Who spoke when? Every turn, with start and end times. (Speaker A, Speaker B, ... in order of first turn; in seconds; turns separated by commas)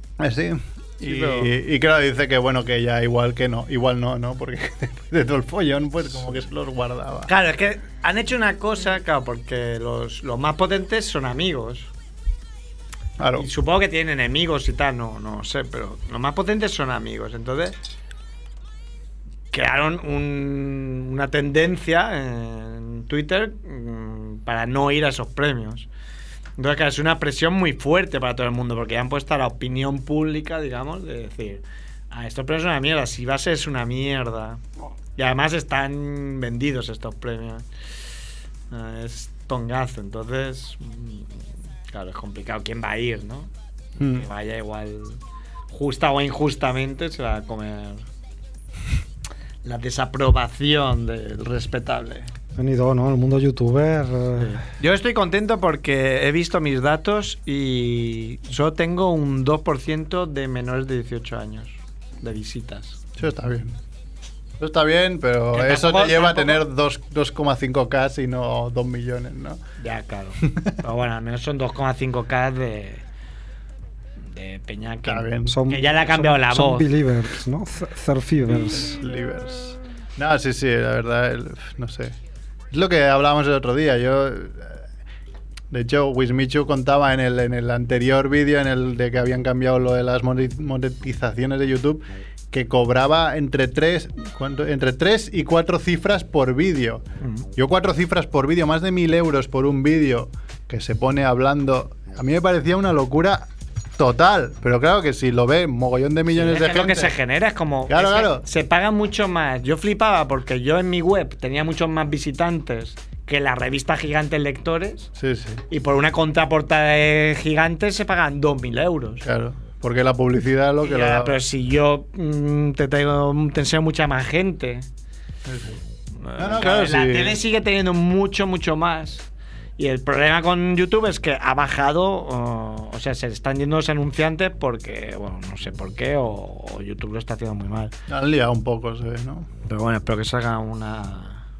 Speaker A: 0.2-7.3, Speaker B: 1.0-1.5, Speaker B: 7.3-11.9, Speaker A: 13.2-13.5, Speaker B: 13.3-17.8, Speaker B: 19.5-25.9, Speaker B: 26.6-34.6, Speaker B: 35.1-37.6, Speaker B: 38.7-41.4, Speaker B: 41.9-43.5, Speaker A: 44.0-44.2, Speaker B: 44.1-45.2, Speaker B: 45.7-48.0, Speaker B: 49.6-52.3, Speaker C: 52.5-54.6, Speaker B: 54.4-63.0, Speaker A: 63.2-63.8, Speaker A: 64.6-69.6, Speaker B: 65.5-66.6, Speaker B: 69.8-73.0, Speaker A: 70.4-70.7, Speaker B: 74.3-76.9, Speaker A: 75.0-75.6, Speaker C: 75.5-79.0, Speaker A: 78.5-82.2, Speaker A: 82.7-84.8, Speaker A: 85.7-97.0, Speaker B: 97.2-97.5, Speaker A: 97.5-107.1, Speaker B: 106.3-115.1, Speaker A: 107.9-108.4, Speaker A: 115.2-115.6, Speaker B: 115.7-119.2, Speaker A: 119.2-121.4, Speaker B: 120.8-124.9, Speaker A: 125.5-125.8, Speaker B: 126.2-129.2, Speaker A: 126.4-127.4, Speaker B: 129.8-137.9, Speaker A: 138.1-139.5, Speaker B: 139.7-141.4